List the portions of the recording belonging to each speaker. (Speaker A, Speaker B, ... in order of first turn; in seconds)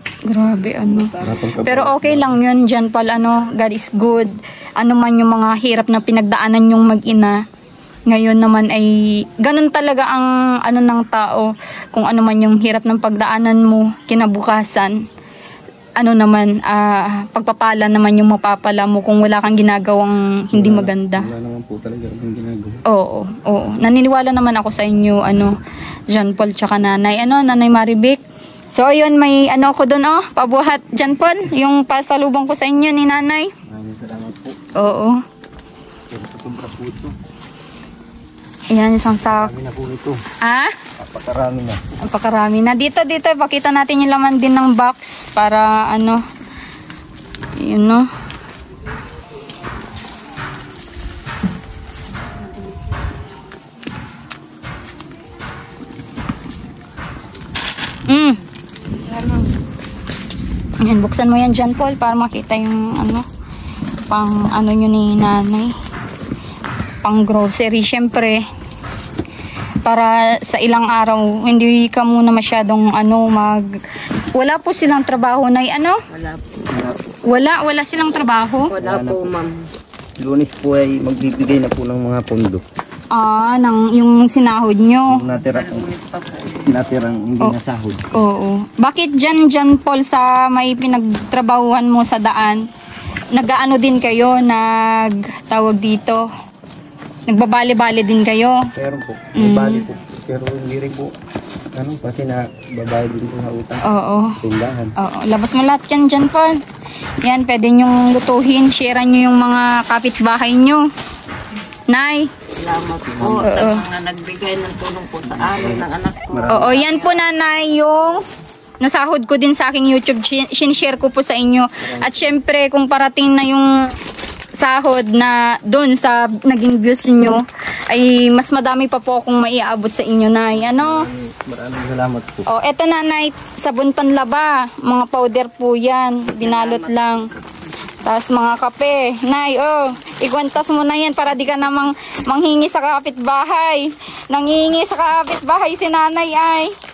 Speaker A: 0.3-7.4, 8.1-15.0, 16.0-21.3, 22.9-25.5, 26.1-28.2, 28.7-33.5, 34.8-35.2, 38.7-39.5, 40.4-40.7, 42.0-46.2, 47.6-48.1, 58.1-58.4, 60.8-63.2, 64.1-65.8, 67.0-68.5, 69.8-73.7, 74.3-76.0, 77.3-78.7, 83.1-85.2, 88.1-92.7, 93.3-96.3, 97.3-98.7, 99.4-99.9, 103.8-104.4, 105.0-106.6, 107.2-110.9, 111.9-112.3, 113.4-113.8, 116.5-118.2, 118.8-123.7, 124.5-131.1, 132.5-137.3, 138.0-146.7
Speaker B: 0.8-1.5, 59.1-59.5, 76.1-76.7, 78.7-79.6, 85.4-86.8, 112.6-117.2, 136.3-137.3
Speaker C: 1.2-2.4, 20.5-22.8, 33.7-34.6, 36.1-37.1, 39.2-40.2, 41.0-41.8, 76.7-77.2, 78.8-79.3, 80.2-82.6, 85.1-85.9, 86.7-88.0, 98.7-101.1, 101.8-103.9, 104.4-104.9, 113.1-113.5, 115.2-116.9, 121.8-122.3, 130.7-132.5